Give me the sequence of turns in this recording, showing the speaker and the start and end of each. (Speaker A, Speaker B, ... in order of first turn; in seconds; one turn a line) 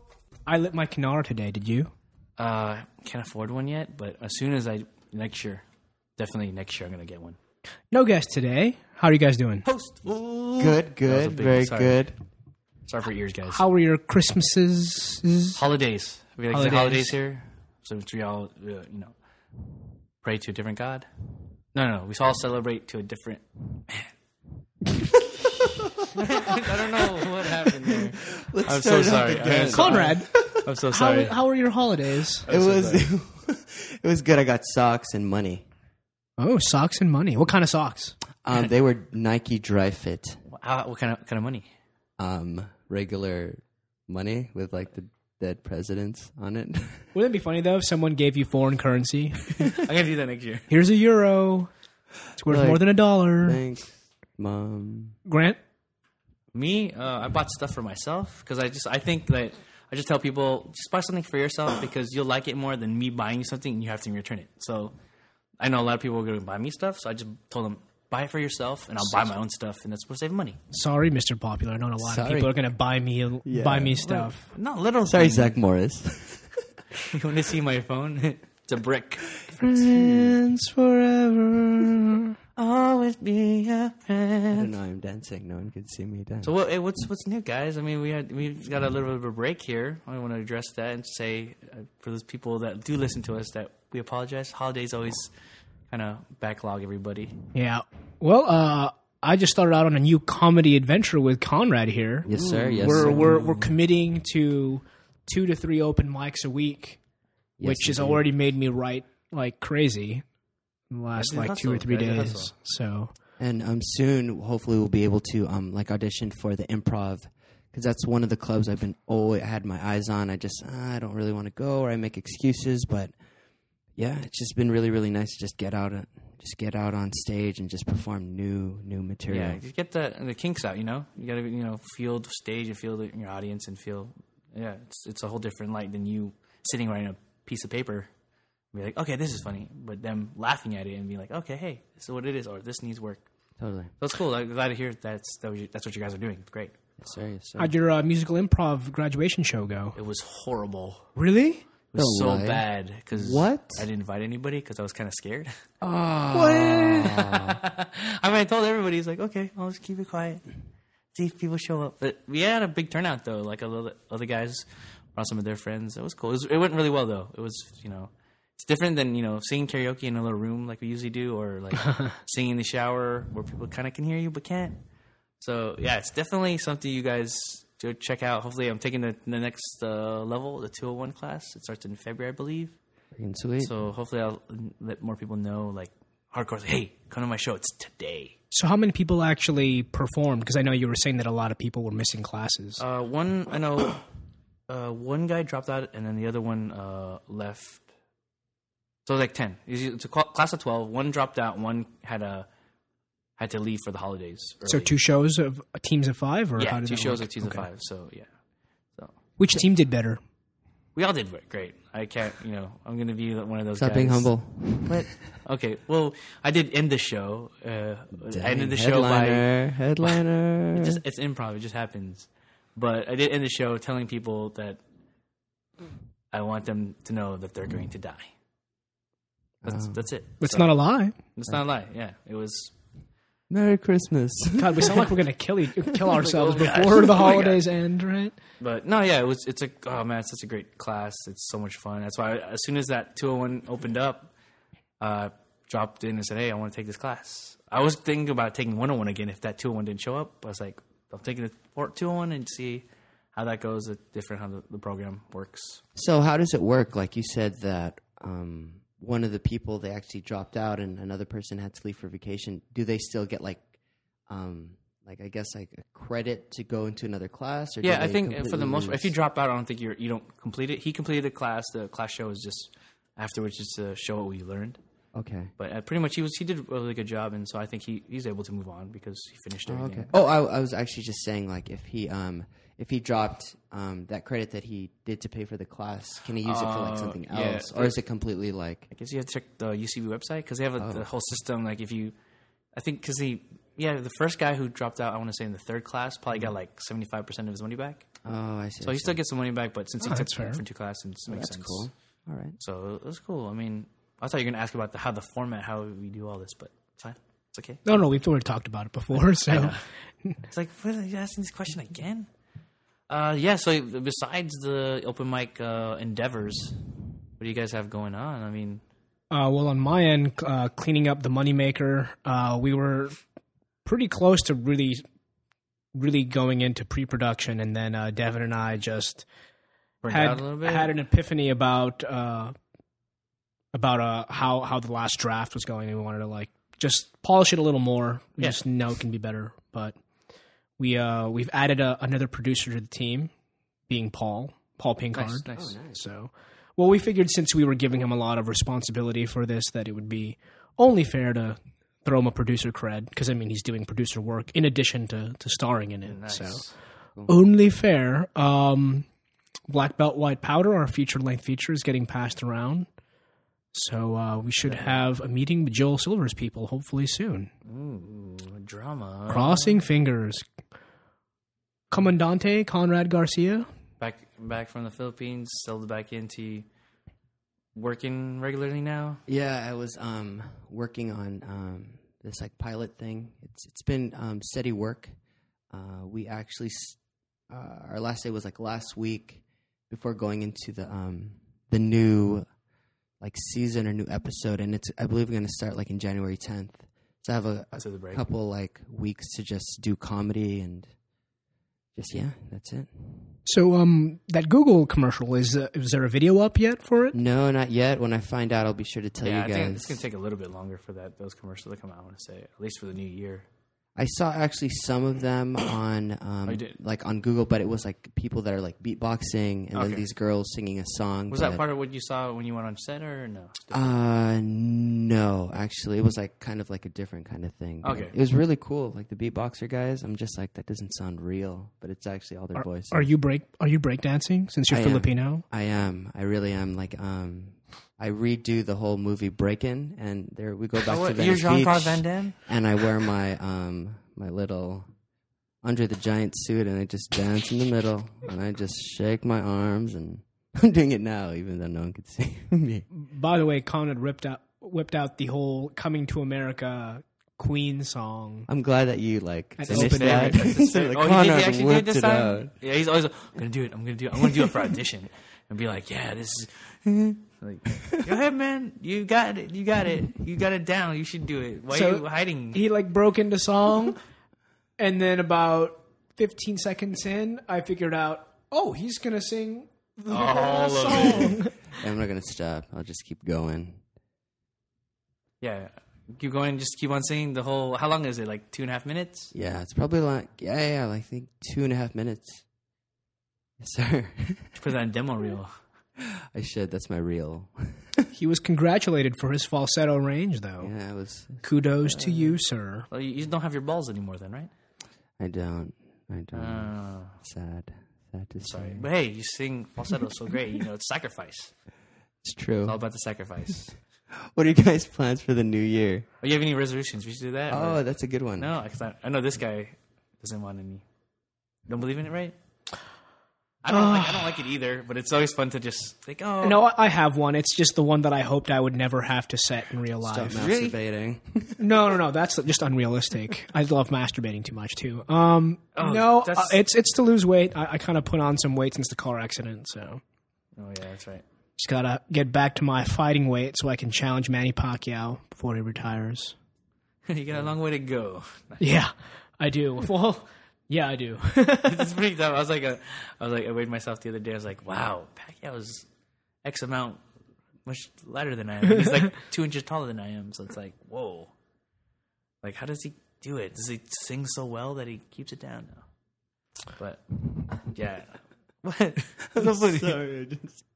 Speaker A: 0.5-1.9
Speaker B: 2.4-5.6
Speaker B: 6.2-7.4
Speaker A: 7.9-9.7
Speaker B: 9.6-12.1
Speaker C: 10.6-12.2
Speaker B: 12.9-13.6
Speaker A: 13.5-15.6
Speaker B: 15.5-19.1
Speaker A: 16.5-17.1
Speaker B: 20.2-21.1
Speaker B: 21.7-24.1
Speaker C: 25.4-30.7
Speaker B: 26.1-31.4
Speaker A: 29.7-30.3
Speaker A: 30.9-32.5
Speaker B: 32.4-33.1
Speaker C: 32.5-35.6
Speaker A: 36.4-38.1
Speaker C: 38.4-40.4
Speaker B: 40.5-41.7
Speaker C: 42.2-47.1
Speaker A: 47.1-49.7
Speaker B: 49.6-50.7
Speaker A: 50.7-51.7
Speaker A: 52.4-53.6
Speaker C: 52.5-55.1
Speaker A: 55.2-55.6
Speaker B: 56.5-64.9
Speaker B: 65.6-70.6
Speaker C: 69.0-69.3
Speaker A: 70.7-74.5
Speaker C: 72.0-72.5
Speaker C: 73.4-74.0
Speaker B: 74.0-75.6
Speaker C: 75.0-76.6
Speaker B: 77.1-79.4
Speaker C: 79.5-80.4
Speaker A: 79.6-82.3
Speaker B: 82.5-84.7
Speaker C: 84.5-86.5
Speaker B: 86.4-95.3
Speaker B: 95.9-97.3
Speaker A: 97.5-107.0
Speaker B: 102.2-103.8
Speaker C: 102.2-103.4
Speaker C: 107.6-108.3
Speaker A: 107.6-110.2
Speaker A: 110.9-113.1
Speaker B: 111.1-112.5
Speaker C: 113.4-123.1
Speaker C: 124.0-129.6
Speaker B: 129.3-138.1
Speaker B: 138.7-143.2
Speaker C: 143.6-143.9
Speaker B: 144.0-146.7
Speaker C: 147.0-147.7
Speaker A: 147.6-150.0
Speaker B: 149.9-151.1
Speaker A: 151.1-151.6
Speaker B: 151.9-155.5
Speaker C: 151.9-153.9
Speaker C: 155.8-157.6
Speaker A: 156.3-157.1
Speaker B: 156.9-160.4
Speaker B: 161.1-174.8
Speaker A: 171.8-172.1
Speaker B: 175.4-182.8
Speaker C: 183.2-183.7
Speaker B: 183.6-188.3
Speaker A: 188.5-192.8
Speaker B: 192.8-194.0
Speaker B: 194.7-197.8
Speaker B: 199.1-202.5
Speaker B: 203.4-204.9
Speaker A: 204.6-207.7
Speaker B: 206.6-208.3
Speaker B: 208.9-209.6
Speaker A: 209.4-210.2
Speaker B: 210.9-219.5
Speaker C: 213.7-215.1
Speaker C: 218.3-221.0
Speaker B: 220.7-224.8
Speaker B: 226.3-228.3
Speaker B: 229.6-230.8
Speaker C: 229.6-230.0
Speaker A: 230.4-231.1
Speaker B: 231.3-232.7
Speaker C: 233.5-235.1
Speaker A: 234.6-238.3
Speaker B: 236.1-237.6
Speaker B: 238.6-244.3
Speaker B: 245.0-255.8
Speaker C: 255.9-263.6
Speaker C: 264.3-269.1
Speaker B: 267.8-274.8
Speaker C: 275.1-275.5
Speaker B: 275.6-280.1
Speaker C: 279.6-288.9
Speaker B: 286.4-287.9
Speaker B: 288.9-292.1
Speaker C: 290.8-291.1
Speaker B: 292.8-298.1
Speaker C: 298.2-299.2
Speaker B: 298.8-301.9
Speaker A: 300.0-300.6
Speaker C: 301.3-302.6
Speaker B: 302.6-307.8
Speaker A: 307.8-310.4
Speaker B: 309.1-309.8
Speaker B: 310.5-312.3
Speaker B: 313.1-316.8
Speaker B: 317.4-318.8
Speaker A: 319.3-323.2
Speaker A: 323.8-325.0
Speaker A: 325.9-329.3
Speaker B: 330.0-331.0
Speaker A: 330.1-332.5
Speaker A: 333.7-340.0
Speaker A: 340.8-343.3
Speaker A: 343.9-356.6
Speaker B: 345.1-345.8
Speaker C: 345.5-346.0
Speaker B: 356.1-356.7
Speaker A: 357.2-359.1
Speaker A: 359.7-362.9
Speaker A: 363.7-367.5
Speaker B: 364.6-365.1
Speaker B: 367.7-369.9
Speaker A: 369.3-370.4
Speaker A: 371.9-373.7
Speaker B: 374.0-376.6
Speaker B: 377.7-379.2
Speaker C: 379.3-385.1
Speaker C: 385.7-387.0
Speaker C: 387.5-392.4
Speaker C: 393.2-400.9
Speaker B: 397.7-398.2
Speaker C: 401.9-403.4
Speaker A: 403.4-407.2
Speaker C: 407.1-410.0
Speaker B: 409.2-413.4
Speaker C: 413.9-421.6
Speaker B: 416.4-416.7
Speaker B: 419.7-420.1
Speaker B: 421.3-423.9
Speaker C: 423.7-433.1
Speaker B: 427.8-428.1
Speaker A: 432.5-435.4
Speaker C: 434.7-444.9
Speaker B: 440.9-442.4
Speaker C: 445.6-452.9
Speaker A: 452.9-458.5
Speaker C: 458.5-462.5
Speaker A: 459.6-460.5
Speaker B: 459.7-472.6
Speaker A: 471.7-474.0
Speaker A: 474.8-481.7
Speaker B: 480.1-481.4
Speaker C: 480.9-483.8
Speaker B: 485.4-489.3
Speaker C: 489.3-492.4
Speaker C: 493.6-494.6
Speaker B: 494.6-495.5
Speaker C: 496.0-498.1
Speaker A: 498.1-500.7
Speaker C: 500.6-502.4
Speaker A: 501.4-502.9
Speaker B: 502.9-504.5
Speaker C: 505.2-508.9
Speaker B: 506.3-507.1
Speaker B: 508.4-511.5
Speaker C: 512.2-512.8
Speaker B: 512.6-513.7
Speaker C: 514.3-516.1
Speaker B: 516.2-517.8
Speaker C: 517.5-518.6
Speaker B: 518.4-520.8
Speaker B: 521.7-522.3
Speaker B: 523.6-526.7
Speaker A: 523.7-524.4
Speaker A: 526.4-530.4
Speaker C: 530.0-531.8
Speaker B: 530.3-530.8
Speaker A: 531.6-540.0
Speaker B: 535.8-536.6
Speaker B: 540.5-541.2
Speaker A: 541.6-546.4
Speaker B: 547.1-548.6
Speaker A: 548.6-551.9
Speaker B: 551.6-555.9
Speaker B: 556.4-557.0
Speaker B: 557.6-561.3
Speaker B: 562.4-565.8
Speaker B: 566.8-570.0
Speaker C: 569.3-570.6